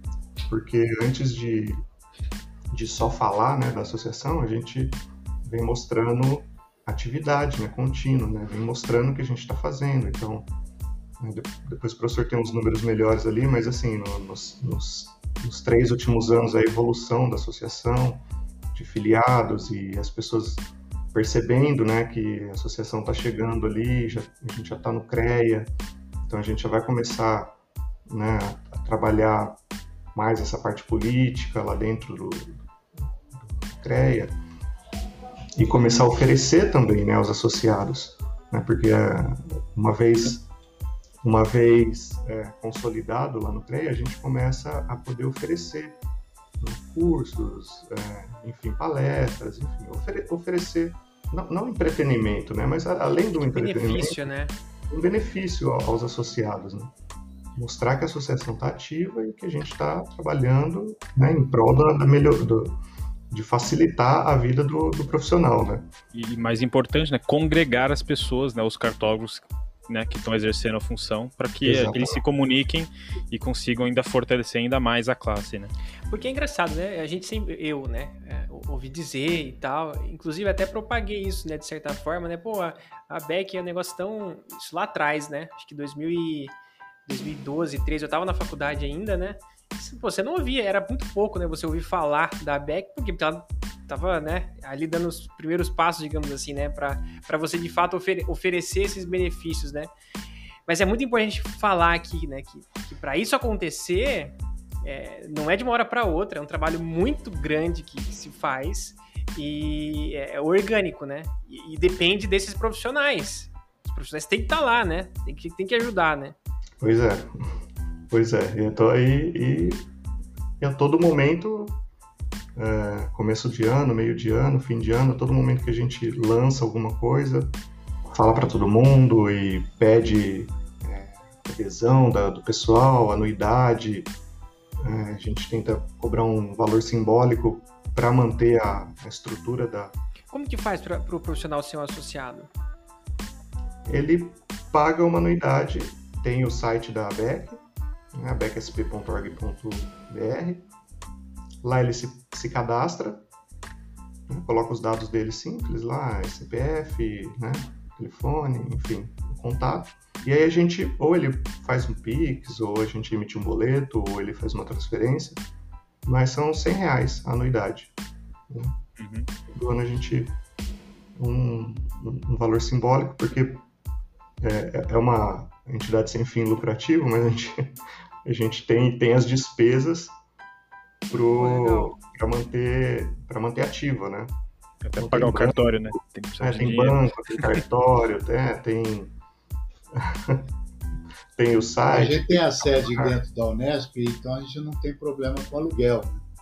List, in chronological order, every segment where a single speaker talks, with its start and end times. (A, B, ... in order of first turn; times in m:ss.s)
0:00.5-0:01.8 A
0:02.7-0:10.5 A
0:11.2-0:25.7 A
0:26.2-0:27.6 A
0:28.1-0:29.6 A
0:30.1-0:32.7 A
0:33.3-0:34.4 A
0:35.6-0:40.4 A
0:41.2-0:46.0 A
0:46.6-0:54.2 A
0:53.4-0:54.5 B
0:54.9-0:56.9 A
0:57.6-1:02.8 A
1:03.3-1:05.9 A
1:06.1-1:15.7 C
1:11.6-1:12.2 A
1:16.1-1:26.5 B
1:27.0-1:39.9 B
1:40.6-1:56.4 B
1:56.8-1:57.6 A
1:58.1-1:59.8 A
2:00.6-2:01.8 A
2:02.6-2:07.6 A
2:08.1-2:14.1 A
2:14.8-2:19.9 A
2:20.3-2:22.5 B
2:23.8-2:27.6 A
2:28.1-2:30.7 A
2:31.6-2:33.2 A
2:34.3-2:45.4 A
2:46.0-2:47.9 A
2:48.5-2:48.8 A
2:49.0-2:49.3 C
2:49.5-2:50.4 A
2:51.2-2:53.6 A
2:54.4-3:00.1 A
3:01.1-3:04.3 A
3:01.4-3:01.9 B
3:04.8-3:07.4 C
3:05.0-3:09.2 A
3:09.9-3:10.5 A
3:11.3-3:13.2 A
3:11.8-3:16.2 D